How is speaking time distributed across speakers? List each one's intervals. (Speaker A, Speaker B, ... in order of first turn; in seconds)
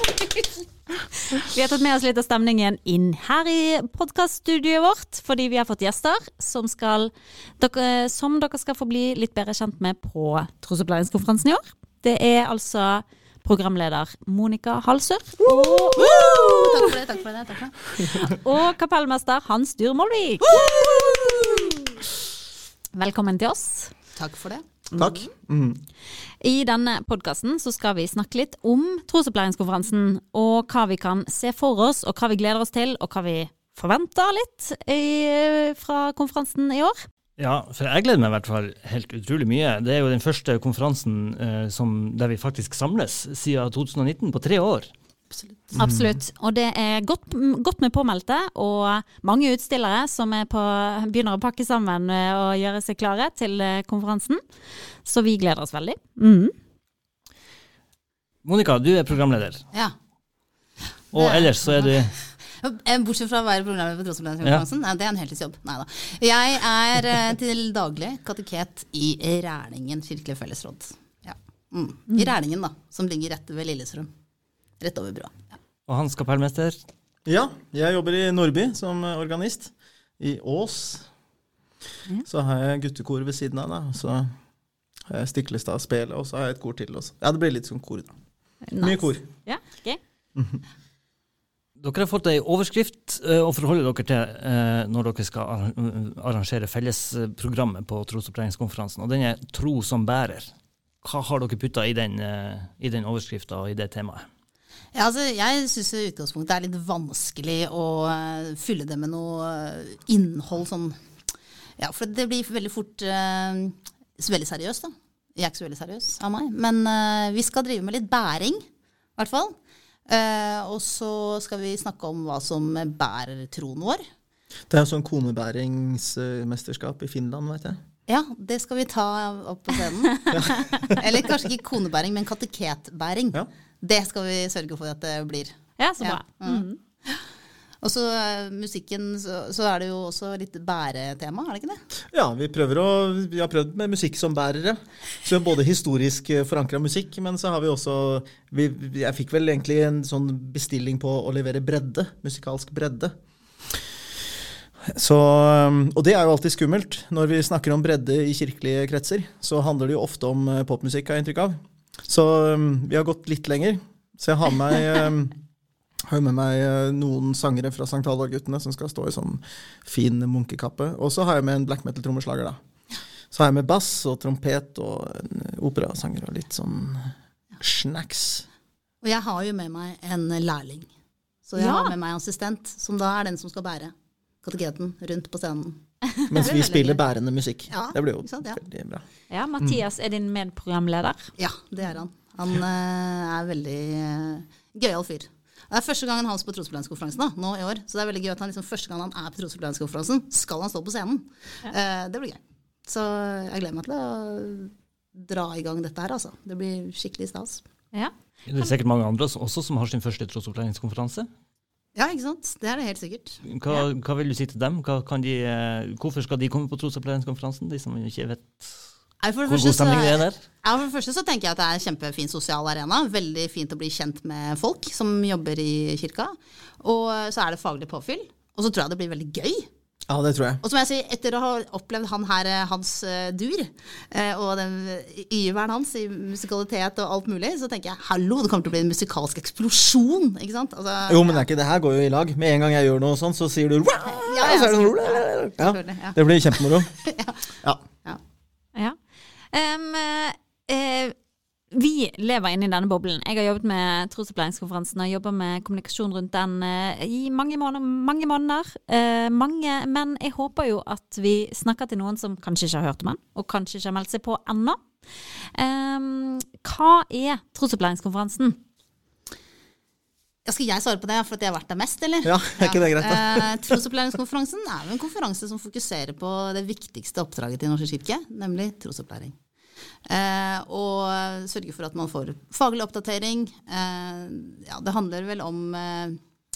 Speaker A: 1.2-16.9, 18.0-20.7, 22.9-23.9, 24.9-25.3, 26.4-37.0, 45.8-54.4, 55.0-56.5, 88.7-90.0, 135.8-136.8, 181.6-181.9, 189.3-191.3, 207.9-208.7, 249.5-251.1, 251.7-264.8, 265.4-268.6
Speaker B: 15.5-16.5, 20.5-21.6, 24.9-25.8, 45.8-46.2, 77.3-81.1, 82.3-84.3, 85.1-88.1, 88.8-89.2, 90.4-90.6, 124.7-127.8, 130.3-131.0, 142.1-153.1, 154.9-165.3, 166.1-172.6, 173.3-178.5, 186.3-189.0, 230.1-230.6, 241.1-246.9, 272.2-273.8
Speaker C: 16.0-17.8, 24.1-24.6, 45.3-45.8, 61.1-74.1, 74.8-75.4, 104.9-111.0, 111.8-118.7, 119.2-119.5, 120.1-124.0, 128.1-137.2, 137.8-141.8, 179.0-180.9, 181.5-185.8, 186.3-187.0, 187.7-188.6, 191.4-207.6, 211.9-213.4, 219.2-229.7, 230.6-241.4, 244.1-247.4, 270.5-279.4, 280.1-286.2
Speaker D: 37.4-44.9, 58.4-59.6, 61.1-62.1, 75.9-76.8, 91.8-104.3, 208.5-211.3, 213.4-218.9, 219.4-220.4